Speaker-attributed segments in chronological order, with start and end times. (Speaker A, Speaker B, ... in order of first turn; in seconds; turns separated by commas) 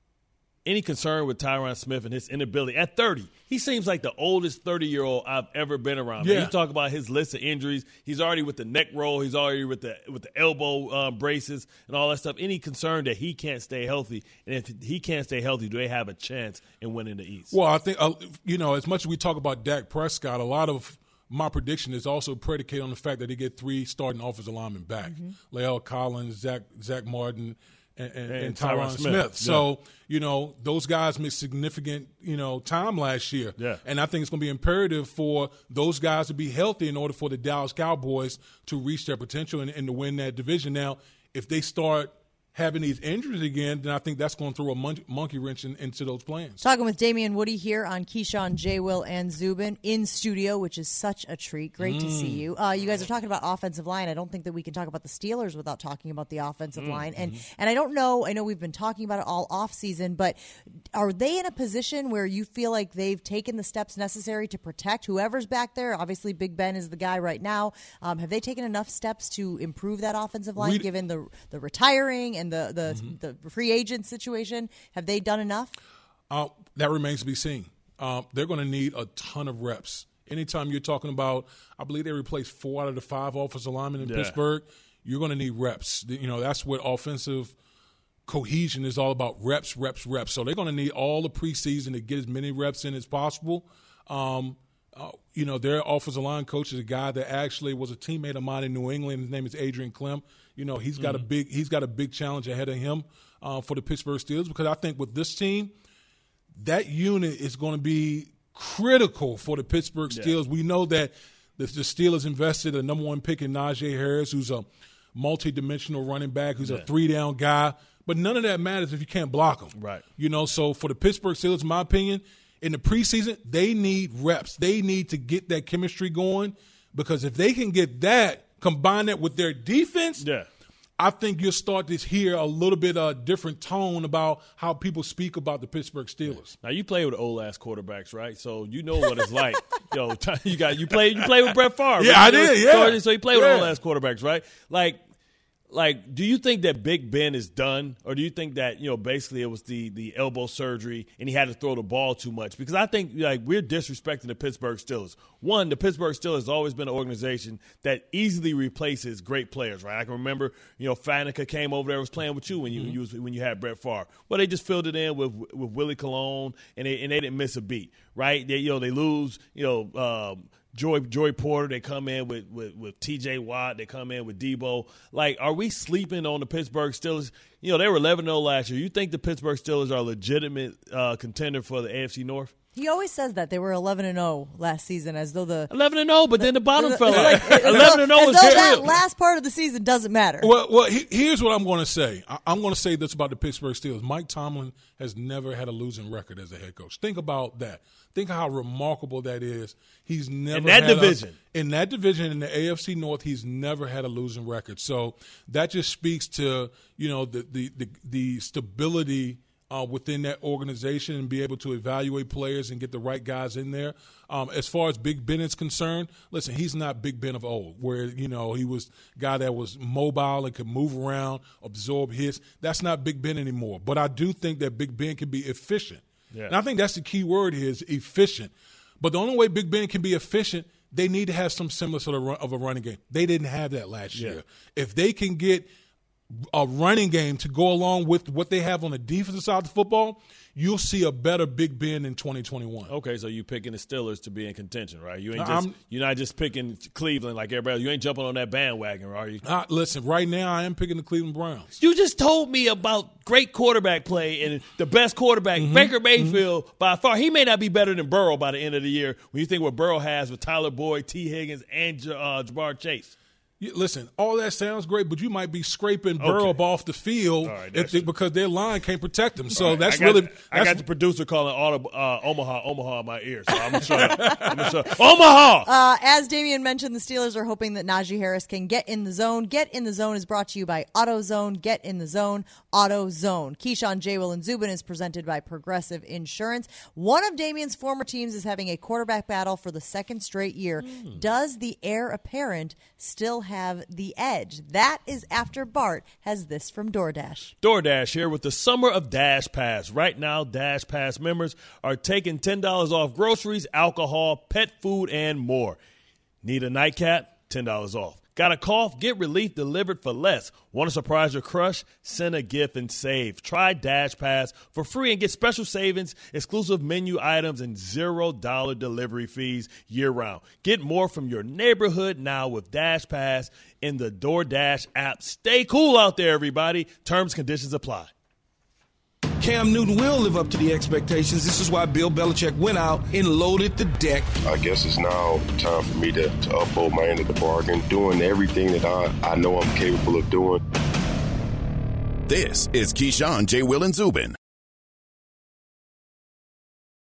Speaker A: 0.6-17.6, Speaker B: 6.2-6.5, Speaker B: 17.5-46.6, Speaker A: 28.3-29.6, Speaker A: 33.6-33.8, Speaker C: 46.6-60.4, Speaker B: 51.8-52.5, Speaker A: 56.8-57.1, Speaker C: 60.9-75.7, Speaker B: 70.5-70.9, Speaker B: 72.9-73.1, Speaker B: 76.3-87.5, Speaker A: 84.0-84.4, Speaker B: 88.3-105.7, Speaker A: 101.0-101.3, Speaker B: 106.5-130.2, Speaker A: 110.1-110.4, Speaker A: 116.6-116.9, Speaker A: 119.7-120.0, Speaker A: 130.2-130.5, Speaker B: 131.0-136.5, Speaker A: 136.2-145.0, Speaker B: 139.2-139.5, Speaker B: 140.9-143.7, Speaker A: 145.7-182.5, Speaker B: 162.5-163.0, Speaker C: 182.7-185.7, Speaker A: 185.7-188.9, Speaker C: 186.4-190.5, Speaker B: 187.1-188.9, Speaker B: 190.4-235.7, Speaker A: 200.5-201.4, Speaker A: 226.3-226.6, Speaker A: 234.1-234.4, Speaker B: 236.5-242.9, Speaker A: 242.9-249.4, Speaker B: 245.3-245.7, Speaker B: 249.4-251.7, Speaker A: 251.8-263.1, Speaker B: 255.6-256.4, Speaker B: 263.6-270.9, Speaker A: 266.2-266.6, Speaker A: 267.4-268.1, Speaker A: 269.5-275.7, Speaker B: 273.8-274.6, Speaker C: 274.0-274.5, Speaker C: 275.6-297.5, Speaker A: 290.8-291.2, Speaker A: 297.6-305.8, Speaker A: 306.4-328.1, Speaker D: 329.4-334.4, Speaker E: 334.4-340.6, Speaker F: 342.3-344.4